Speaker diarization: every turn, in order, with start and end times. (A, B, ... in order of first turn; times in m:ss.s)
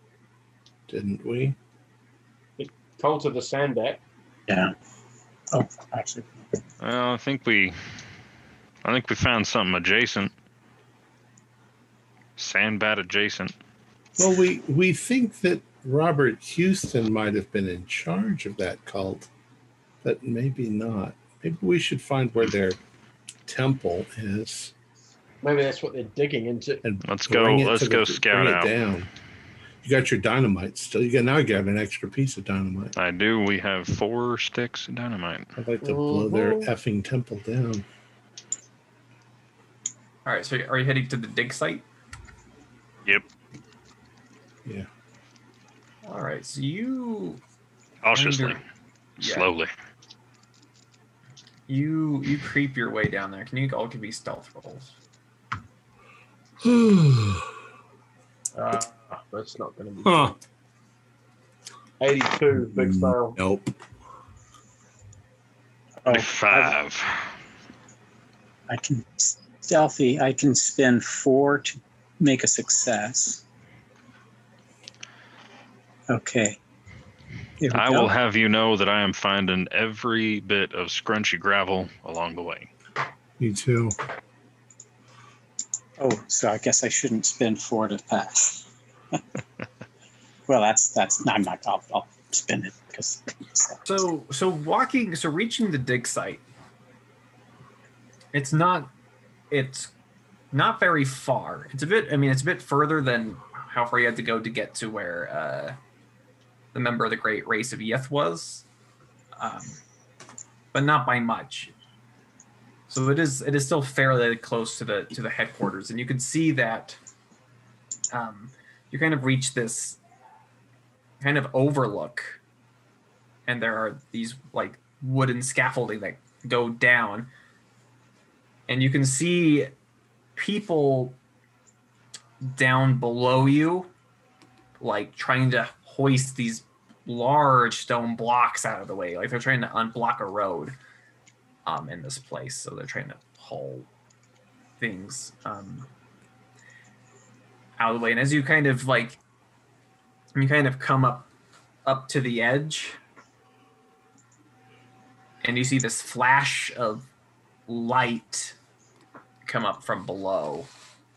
0:00.9-0:01.6 A
0:02.6-0:04.0 B
0:04.5-0:04.7 C
0:05.5-0:06.6 C
0:06.8-0:07.8 D
0:08.8-0:10.3 D
0:12.4-0:13.5 D
0:14.2-0:19.3 A
0:20.0-0:22.8 A
0:23.5-0:24.7 A
0:25.4-0:26.8 B
0:26.8-0:29.1 A
0:27.0-0:28.7 D
0:29.8-0:32.9 A
0:33.0-0:35.5 D
0:35.6-0:37.9 A
0:35.8-0:36.7 B
0:40.2-0:41.8 E
0:46.0-0:47.4 E
0:48.0-0:48.6 D
0:48.1-0:48.6 E
0:49.2-0:49.5 E
0:49.2-0:49.7 D
0:51.7-0:54.9 E
0:56.6-0:57.5 A
0:58.6-1:00.4 B
1:00.0-1:00.4 A
1:02.0-1:03.4 B
1:02.5-1:03.8 A
1:06.1-1:06.7 C
1:06.1-1:07.3 D
1:08.7-1:13.4 C
1:16.1-1:16.6 C
1:17.6-1:18.1 C
1:17.7-1:22.7 D
1:23.4-1:24.0 A
1:26.0-1:28.7 C
1:30.5-1:33.8 C
1:33.8-1:36.4 E
1:38.3-1:38.9 E
1:39.5-1:39.9 E
1:40.5-1:45.8 E
1:46.7-1:48.7 E
1:49.4-1:49.8 E
1:50.7-1:51.7 E
1:52.9-1:57.0 E
1:58.1-2:00.0 E
2:01.2-2:02.4 E
2:03.5-2:07.3 E
2:08.7-2:09.7 E
2:10.4-2:11.2 E
2:12.4-2:13.9 E
2:14.8-2:20.8 E
2:21.7-2:23.9 E
2:24.8-2:25.9 E
2:27.8-2:29.2 E
2:30.3-2:31.3 E
2:31.9-2:33.0 E
2:35.4-2:37.0 E
2:37.7-2:38.6 E
2:39.4-2:40.7 E